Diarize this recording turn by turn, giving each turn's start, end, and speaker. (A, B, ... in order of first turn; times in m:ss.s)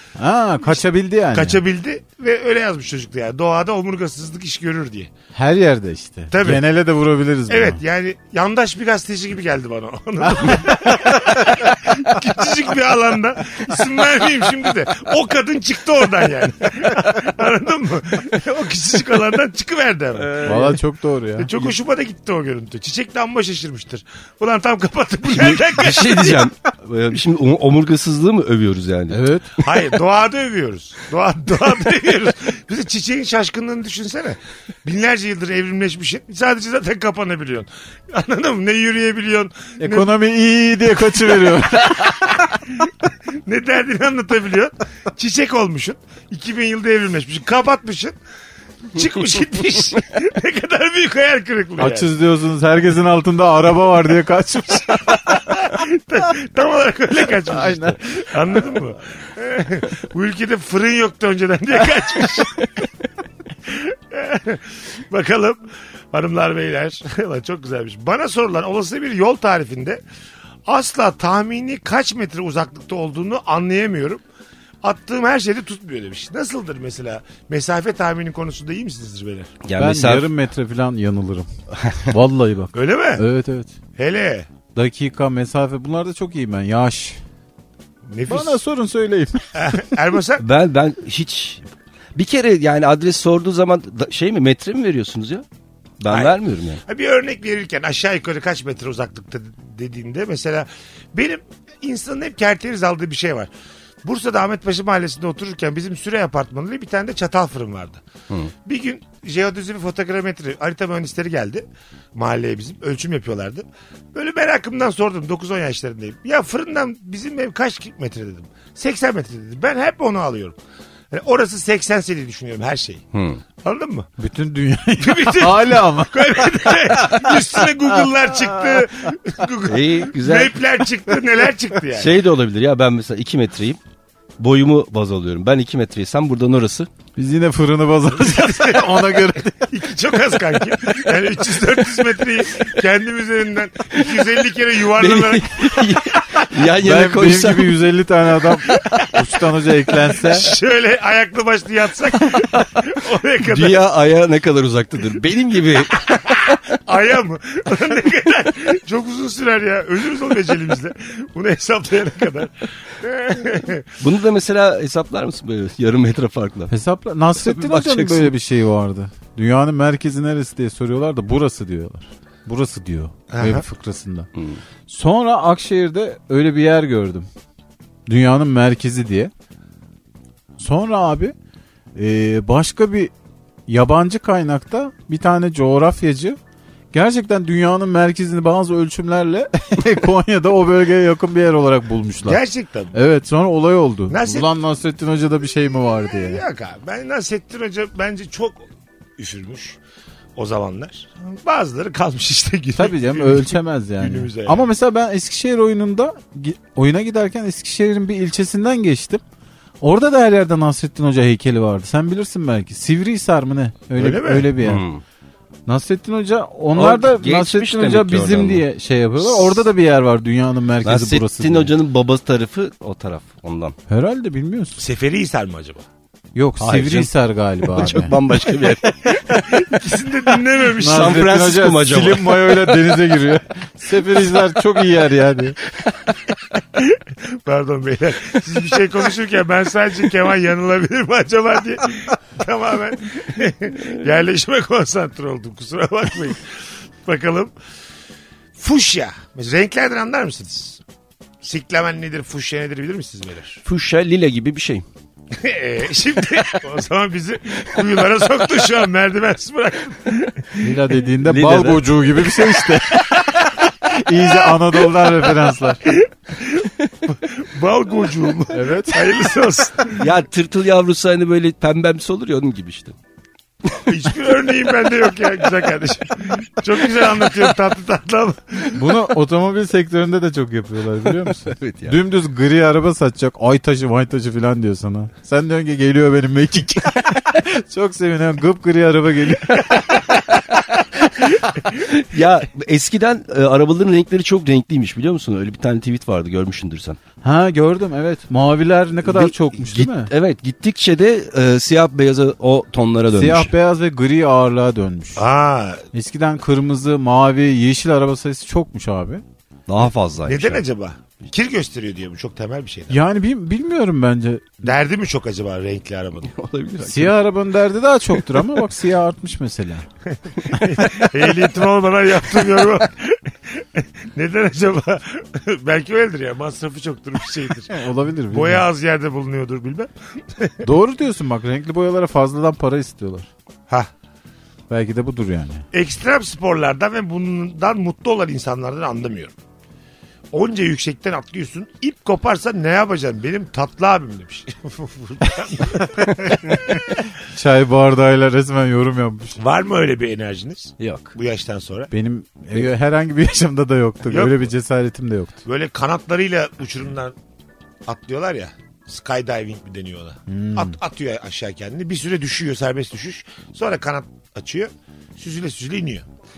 0:00.2-0:01.6 A
0:01.3-0:05.1 B
0:05.3-0:07.8 A
0:06.3-0:06.6 B
0:07.5-0:20.8 B
0:10.4-0:11.5 A
0:20.2-0:20.8 C
0:20.4-0:21.5 A
0:21.4-0:26.4 B
0:25.3-0:29.2 C
0:29.1-0:29.8 A
0:29.6-0:40.1 B
0:39.8-0:42.5 A
0:41.4-0:42.9 B
0:43.4-0:48.2 B
0:48.9-0:52.1 B
0:51.8-0:55.4 A
0:55.1-1:02.6 B
0:57.5-0:58.5 A
1:03.6-1:10.0 B
1:10.7-1:14.2 B
1:14.8-1:19.5 B
1:19.6-1:20.3 C
1:19.8-1:21.5 A
1:21.7-1:22.1 C
1:22.0-1:23.7 A
1:22.7-1:23.2 B
1:24.0-1:24.5 B
1:24.7-1:27.2 A
1:28.1-1:28.6 B
1:28.3-1:29.8 A
1:29.5-1:30.4 B
1:30.4-1:35.4 C
1:36.0-1:36.8 C
1:36.1-1:43.5 B
1:44.0-1:48.0 B
1:48.6-2:00.6 B
2:01.1-2:03.0 B
2:03.1-2:03.4 C
2:03.6-2:04.1 B
2:04.2-2:07.2 A
2:05.0-2:12.1 B
2:09.6-2:10.6 C
2:11.9-2:13.8 C
2:14.4-2:16.9 C
2:17.2-2:19.7 A
2:18.2-2:26.1 B
2:25.0-2:27.8 C
2:26.8-2:30.5 A
2:30.2-2:33.8 B
2:33.4-2:36.6 C
2:36.3-2:43.9 B
2:44.0-2:46.7 C
2:46.7-2:54.3 A
2:47.4-2:48.3 C
2:53.3-2:53.6 B
2:54.3-2:54.6 C
2:54.9-2:57.3 A
2:58.1-2:59.3 A
3:00.6-3:01.3 A
3:02.0-3:03.1 A
3:03.7-3:06.4 A
3:06.9-3:12.4 A
3:12.3-3:13.0 B
3:12.9-3:16.4 A
3:14.1-3:14.5 B
3:16.1-3:18.6 B
3:19.2-3:19.8 B
3:20.4-3:24.7 B
3:22.8-3:29.2 A
3:29.8-3:34.8 A
3:34.0-3:34.5 B
3:34.6-3:35.0 C
3:35.7-3:41.7 A
3:36.7-3:38.6 C
3:39.3-3:39.6 C
3:40.8-3:43.8 C
3:43.9-3:44.8 A
3:44.8-3:45.8 B
3:46.3-3:48.1 A
3:46.6-3:49.1 C
3:49.1-3:51.2 B
3:50.8-3:55.6 A
3:50.8-3:52.8 C
3:56.7-4:07.5 B
4:08.6-4:10.8 B
4:11.4-4:13.6 B
4:13.6-4:14.8 C
4:15.3-4:20.6 B
4:20.6-4:25.8 A
4:21.2-4:22.0 C
4:25.8-4:30.0 B
4:28.5-4:29.1 A
4:29.9-4:33.0 C
4:33.7-4:38.8 B
4:38.7-4:50.0 A
4:41.0-4:42.0 C
4:51.6-4:57.0 C
4:57.2-5:00.1 A
4:59.0-5:03.5 C
5:03.1-5:05.2 A
5:05.2-5:05.8 B
5:05.9-5:09.2 A
5:09.7-5:10.6 C
5:10.2-5:13.0 B
5:12.9-5:14.6 A
5:14.6-5:16.3 B
5:16.2-5:17.2 C
5:16.8-5:19.9 A
5:20.4-5:27.8 B
5:20.5-5:21.1 A
5:27.7-5:28.6 A
5:28.3-5:30.6 B
5:30.6-5:33.3 A
5:34.7-5:35.6 A
5:35.7-5:39.3 B
5:40.3-5:46.6 B
5:47.3-5:49.4 A
5:49.4-5:51.9 B
5:50.8-5:51.1 C
5:51.9-5:55.4 A
5:54.1-5:54.4 B
5:55.4-5:57.1 B
5:57.8-6:06.0 B
6:00.3-6:00.8 A